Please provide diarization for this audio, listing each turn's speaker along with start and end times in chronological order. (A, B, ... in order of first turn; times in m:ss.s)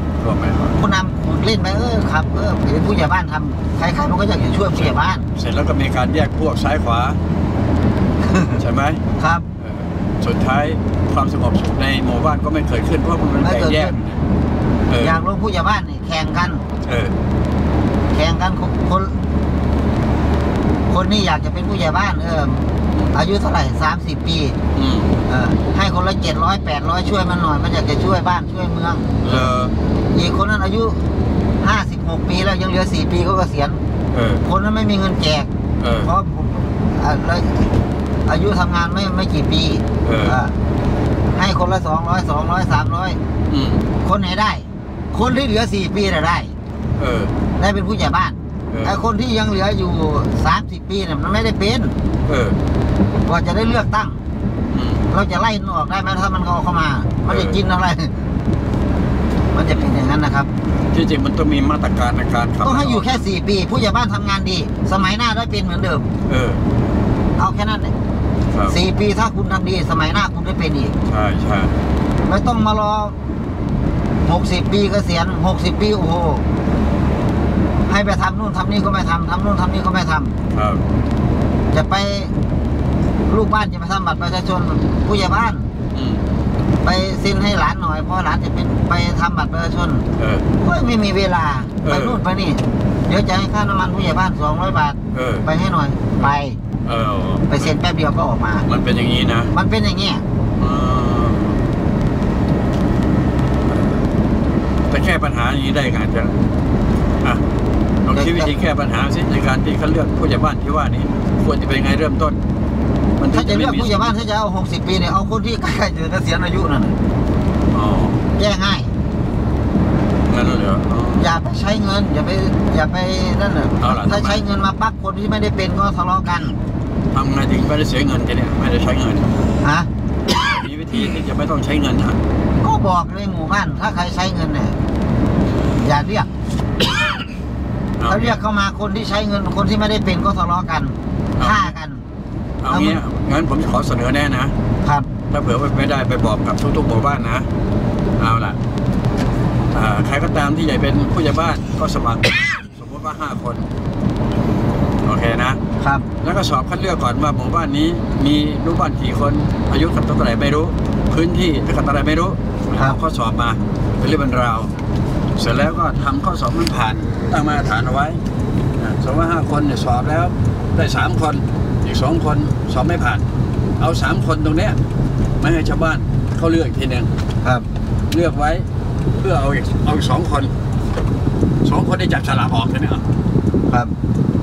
0:00.2-0:00.8 A
0:00.8-0:05.2 B
0:04.7-0:07.2 A
0:08.2-0:08.6 B
0:08.6-0:09.0 A
0:09.2-0:09.5 B
0:09.6-0:14.2 A
0:13.4-0:14.0 B
0:14.9-0:15.2 A
0:15.0-0:16.6 B
0:16.8-0:17.2 A
0:18.1-0:19.2 B
0:20.9-0:24.6 B
0:24.7-0:25.2 A
0:25.3-0:29.5 B
0:29.2-0:29.7 A
0:30.1-0:31.0 B
0:31.6-0:33.8 B
0:34.1-0:34.4 A
0:34.4-0:35.5 B
0:35.8-0:36.1 A
0:36.0-0:37.7 B
0:38.2-0:40.5 B
0:40.0-0:40.4 A
0:41.3-0:43.2 B
0:43.5-0:43.9 A
0:44.0-0:46.5 B
0:47.0-0:47.3 A
0:47.6-0:52.0 B
0:48.7-0:49.0 A
0:52.3-0:52.6 A
0:53.2-0:54.2 B
0:54.7-0:55.1 A
0:55.1-0:58.1 B
0:57.3-0:57.6 A
0:59.5-1:00.5 B
1:00.8-1:03.2 A
1:02.6-1:06.1 B
1:06.3-1:06.6 A
1:07.4-1:07.9 B
1:08.5-1:08.8 A
1:08.7-1:10.9 B
1:11.1-1:11.8 A
1:12.2-1:13.2 B
1:14.2-1:16.4 B
1:17.9-1:20.3 B
1:20.5-1:20.9 A
1:21.7-1:22.3 B
1:23.3-1:25.7 B
1:25.9-1:26.3 A
1:26.8-1:30.1 B
1:30.2-1:30.5 A
1:30.6-1:36.6 B
1:31.8-1:32.2 A
1:35.1-1:35.4 A
1:36.8-1:37.7 A
1:37.5-1:38.7 B
1:38.7-1:39.5 A
1:39.5-1:40.2 B
1:40.6-1:41.6 A
1:44.9-1:46.4 A
1:48.0-1:52.4 A
1:48.1-1:48.6 B
1:53.2-1:54.2 A
1:53.3-1:57.0 B
1:57.7-1:58.2 A
1:58.4-1:58.9 B
2:00.3-2:01.3 A
2:01.2-2:06.6 B
2:03.8-2:04.4 A
2:07.1-2:09.4 A
2:09.6-2:09.9 B
2:10.4-2:12.2 A
2:12.6-2:14.8 B
2:15.8-2:16.3 B
2:18.0-2:18.4 A
2:18.1-2:22.0 B
2:21.4-2:21.7 A
2:22.6-2:24.5 A
2:22.7-2:23.0 B
2:24.8-2:25.1 B
2:25.3-2:27.5 A
2:28.2-2:28.6 A
2:29.7-2:33.7 A
2:35.0-2:35.6 A
2:35.8-2:36.1 B
2:36.2-2:44.7 A
2:45.4-2:48.2 A
2:48.8-2:53.2 A
2:53.8-2:54.8 A
2:55.4-2:57.1 A
2:58.1-3:00.5 A
3:01.6-3:03.0 A
3:03.7-3:03.9 B